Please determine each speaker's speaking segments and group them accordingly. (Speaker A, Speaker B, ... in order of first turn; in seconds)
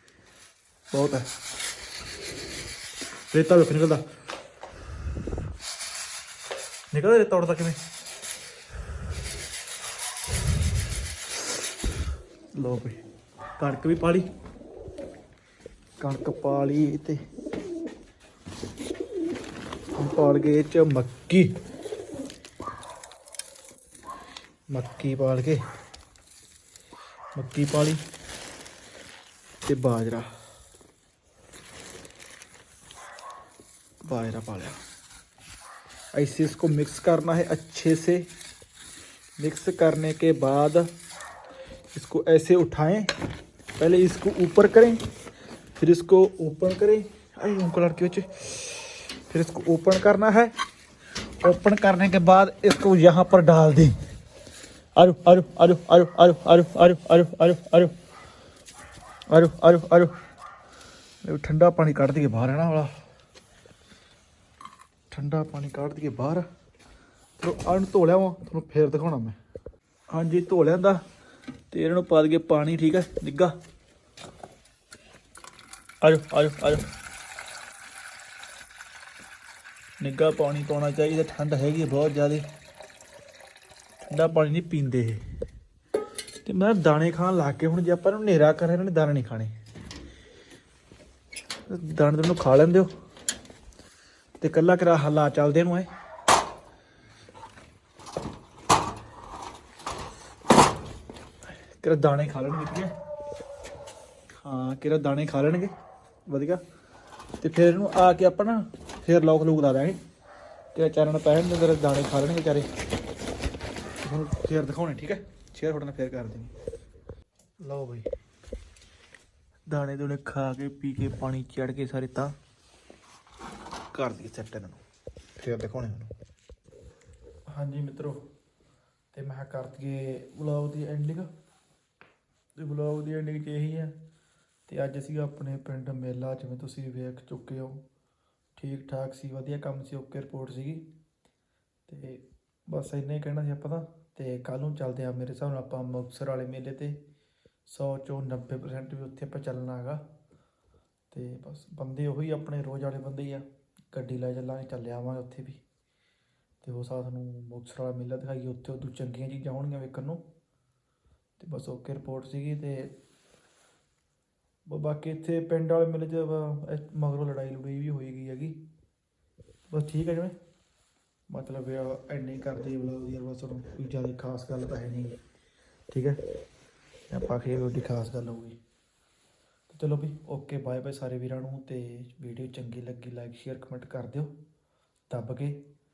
Speaker A: 0.9-1.3, 3.3-4.0, 6.9-7.8, 12.6-13.0, 13.6-14.3, 16.0-17.2, 20.0-21.5, 24.7-25.6, 27.4-28.0, 29.6-30.3, 34.0-34.8, 36.1-38.3, 39.4-40.9, 41.9-43.1, 43.8-45.0, 45.8-50.5, 51.4-54.0, 55.0-57.9, 59.3-60.1, 61.2-62.9, 65.1-66.5, 67.4-69.4, 70.1-71.0, 71.7-73.6, 76.0-76.9, 80.0-82.5, 84.0-85.2, 86.5-89.5, 91.7-92.9, 94.4-95.9, 101.8-102.9, 104.4-105.7, 106.3-106.6, 107.4-110.0, 110.7-112.7, 114.0-116.5, 117.6-118.1, 119.7-122.3, 123.9-124.8, 125.4-126.1, 127.5-128.2, 129.1-131.3, 132.6-133.9, 134.7-137.8, 138.6-140.8, 141.9-147.0, 147.7-150.0, 151.1-155.6, 156.6-160.2, 161.4-162.9, 164.7-168.6, 169.7-170.3, 171.3-175.2, 175.9-176.2, 177.1-178.6, 179.7-184.3, 185.1-185.6